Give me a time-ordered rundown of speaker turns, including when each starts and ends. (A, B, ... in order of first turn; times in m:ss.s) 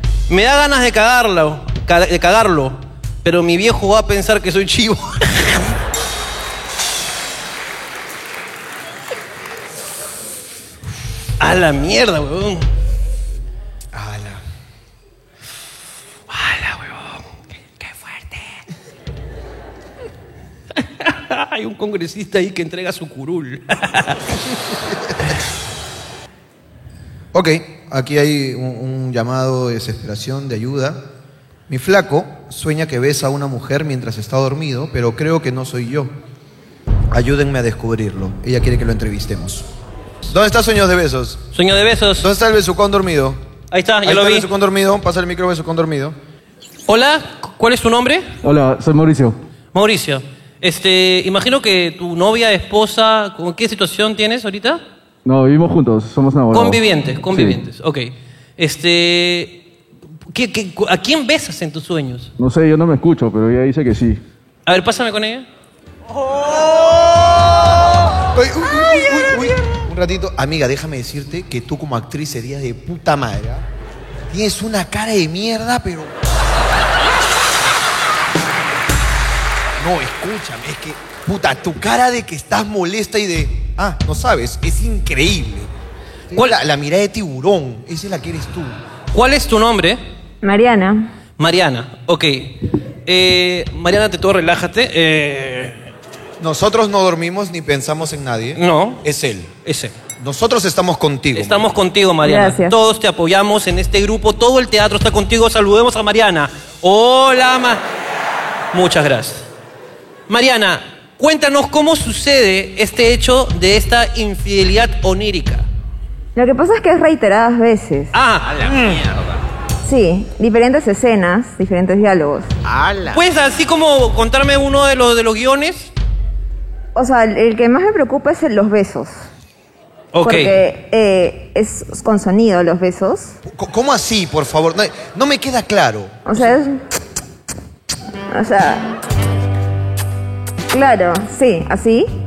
0:00.3-0:05.7 A
0:11.4-0:12.7 A
0:13.9-0:14.4 B
0:16.3-0:18.6 A
0:20.8-0:24.2 A
0:27.3-0:31.0 B
0:31.7-0:36.1 B
0:37.1-0:39.6 B
0:40.3-0:41.4 B
0:41.5-0:42.2 A
0:42.2-0:43.4 B
0:43.7-0:44.5 A
0:44.0-0:46.2 B
0:46.9-0:48.3 A
0:48.4-0:49.4 C
0:49.7-0:54.8 A
0:55.2-0:56.8 C
0:56.5-0:59.6 A
0:57.3-0:57.6 C
1:00.3-1:02.3 A
1:02.4-1:04.2 C
1:04.6-1:05.5 A
1:08.3-1:13.6 B
1:14.3-1:16.1 B
1:19.8-1:25.7 B
1:26.3-1:28.8 B
1:29.1-1:30.0 A
1:30.4-1:31.1 D
1:31.4-1:35.9 A
1:36.4-1:39.5 B
1:38.6-1:39.0 A
1:39.6-1:39.9 A
1:40.2-1:41.6 B
1:41.3-1:47.8 A
1:42.2-1:42.7 D
1:48.7-1:49.4 A
1:50.3-1:55.6 A
1:56.4-1:58.1 D
1:58.1-1:58.7 A
1:58.7-1:59.0 B
1:59.8-2:02.5 D
2:03.0-2:05.9 A
2:06.9-2:09.2 D
2:10.1-2:10.6 A
2:10.2-2:13.4 D
2:13.4-2:16.5 B
2:16.2-2:16.8 D
2:18.3-2:18.9 D
2:20.7-2:22.1 D